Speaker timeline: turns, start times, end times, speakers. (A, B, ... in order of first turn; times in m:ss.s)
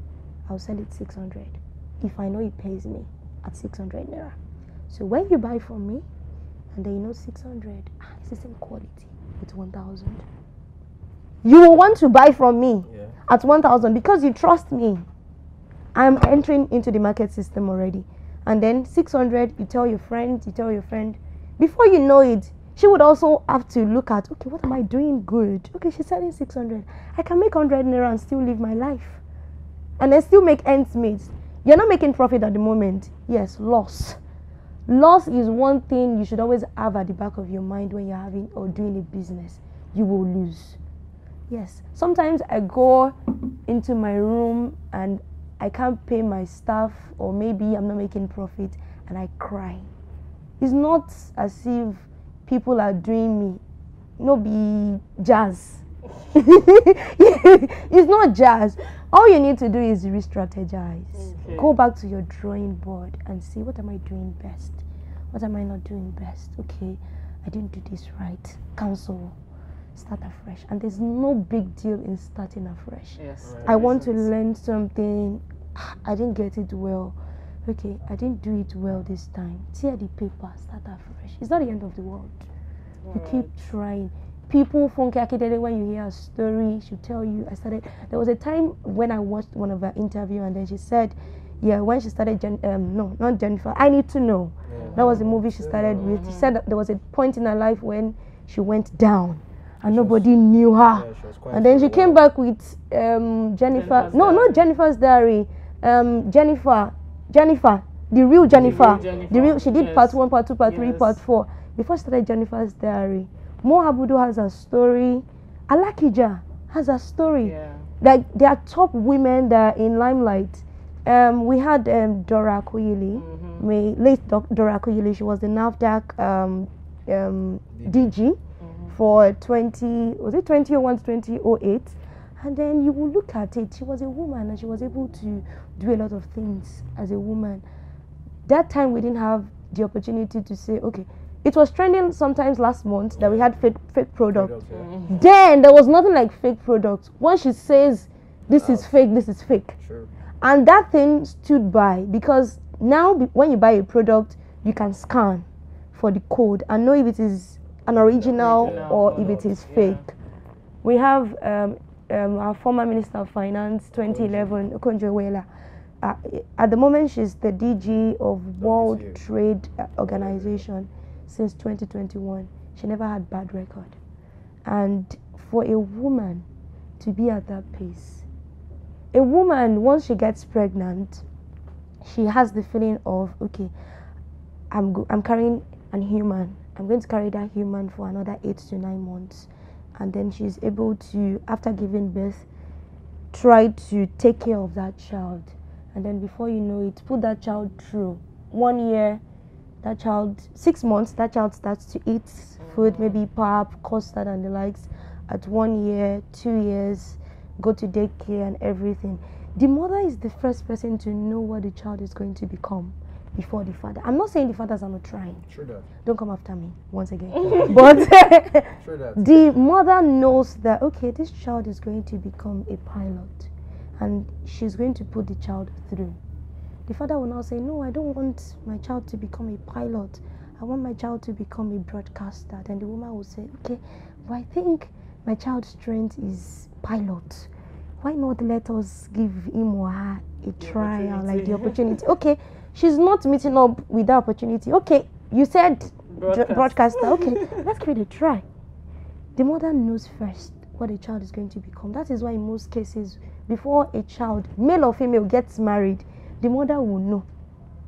0:00.5-0:04.4 A
0:04.9-0:06.0 A
0:06.7-0:10.2 A
0:11.4-0:15.0 A
0:12.9-0:13.2 B
0:16.0-0:29.2 A
0:30.0-0:34.2 A
0:34.9-0:40.8 A
0:41.5-0:49.9 A
0:50.6-0:53.6 A
0:54.2-1:09.4 A
1:01.1-1:01.8 C
1:09.9-1:22.5 A
1:13.2-1:14.3 C
1:13.4-1:14.0 B
1:23.0-1:23.5 C
1:23.1-2:08.4 A
1:34.6-1:36.2 B
1:34.8-1:35.3 C
1:36.0-1:36.5 C
1:39.8-1:40.3 B
1:40.9-1:42.2 B
1:43.7-1:44.6 C
1:48.5-1:49.6 B
1:48.5-1:51.2 C
1:57.4-1:57.9 C
2:03.1-2:03.7 C
2:07.7-2:08.1 B
2:08.6-2:09.0 C
2:08.9-2:17.6 A
2:18.5-2:24.5 A
2:23.1-2:23.5 B
2:24.3-2:24.9 B
2:24.7-2:25.2 C
2:25.1-2:29.8 A
2:28.5-2:29.0 B
2:29.8-2:30.1 B
2:30.4-2:40.0 A
2:37.9-2:39.5 B
2:38.4-2:40.1 C
2:40.8-2:45.5 A
2:44.0-2:44.6 B
2:46.0-2:54.0 A
2:48.6-2:49.2 B
2:50.0-2:50.6 B
2:54.6-2:56.5 A
2:57.0-2:58.2 A
2:59.1-3:01.2 A
3:02.0-3:03.7 A
3:04.7-3:12.5 A
3:13.3-3:19.2 A
3:19.8-3:35.4 A
3:22.6-3:23.2 C
3:35.5-3:35.9 B
3:36.0-3:46.2 A
3:37.4-3:38.0 B
3:38.8-3:39.5 B
3:46.9-3:57.5 A
3:58.0-4:08.4 A
4:00.6-4:02.0 C
4:06.1-4:07.7 C
4:09.4-4:17.2 A